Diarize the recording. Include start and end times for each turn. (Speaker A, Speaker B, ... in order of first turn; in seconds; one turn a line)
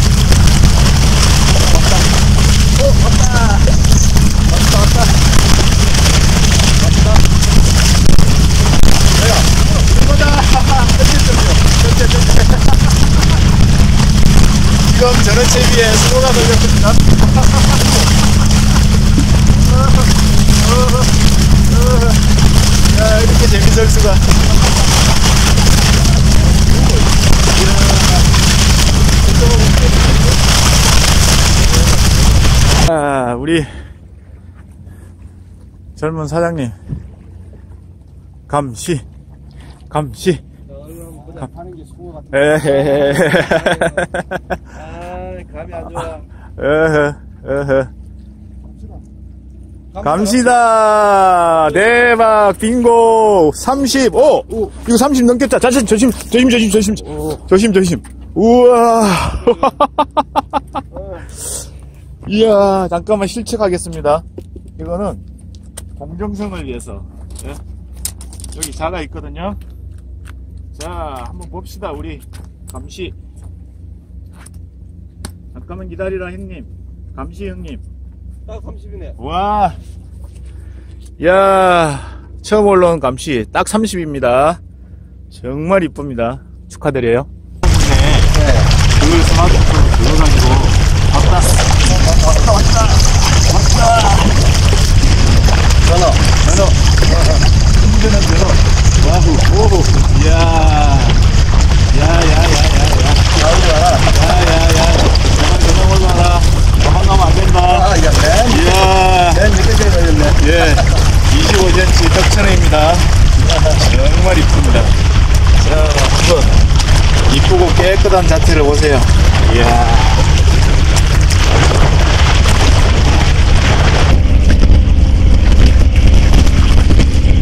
Speaker A: 2.9-3.6
Speaker A: 9.2-12.8
Speaker A: 14.7-17.2
Speaker A: 21.7-22.2
Speaker A: 22.9-24.3
Speaker A: 27.5-28.3
Speaker A: 32.7-33.7
Speaker A: 36.0-36.8
Speaker A: 38.5-39.0
Speaker A: 39.9-40.4
Speaker B: 40.8-42.1
Speaker A: 42.3-44.6
Speaker B: 43.2-43.9
Speaker B: 44.7-46.2
Speaker A: 46.6-47.9
Speaker B: 50.0-50.5
Speaker A: 50.0-60.2
Speaker A: 62.2-64.2
Speaker A: 64.8-65.2
Speaker A: 66.0-67.6
Speaker A: 68.5-69.6
Speaker A: 70.7-73.1
Speaker A: 75.5-77.8
Speaker B: 78.5-79.1
Speaker A: 79.2-79.8
Speaker A: 81.2-84.6
Speaker A: 85.3-88.3
Speaker B: 88.3-88.7
Speaker A: 89.0-91.6
Speaker A: 92.2-94.3
Speaker B: 95.8-96.3
Speaker A: 96.4-96.7
Speaker A: 97.8-101.2
Speaker A: 101.9-103.3
Speaker B: 103.3-104.1
Speaker A: 104.1-107.9
Speaker B: 107.7-108.7
Speaker A: 108.5-109.5
Speaker B: 109.3-110.4
Speaker A: 110.3-113.2
Speaker A: 113.7-115.0
Speaker B: 115.6-116.6
Speaker A: 117.2-120.3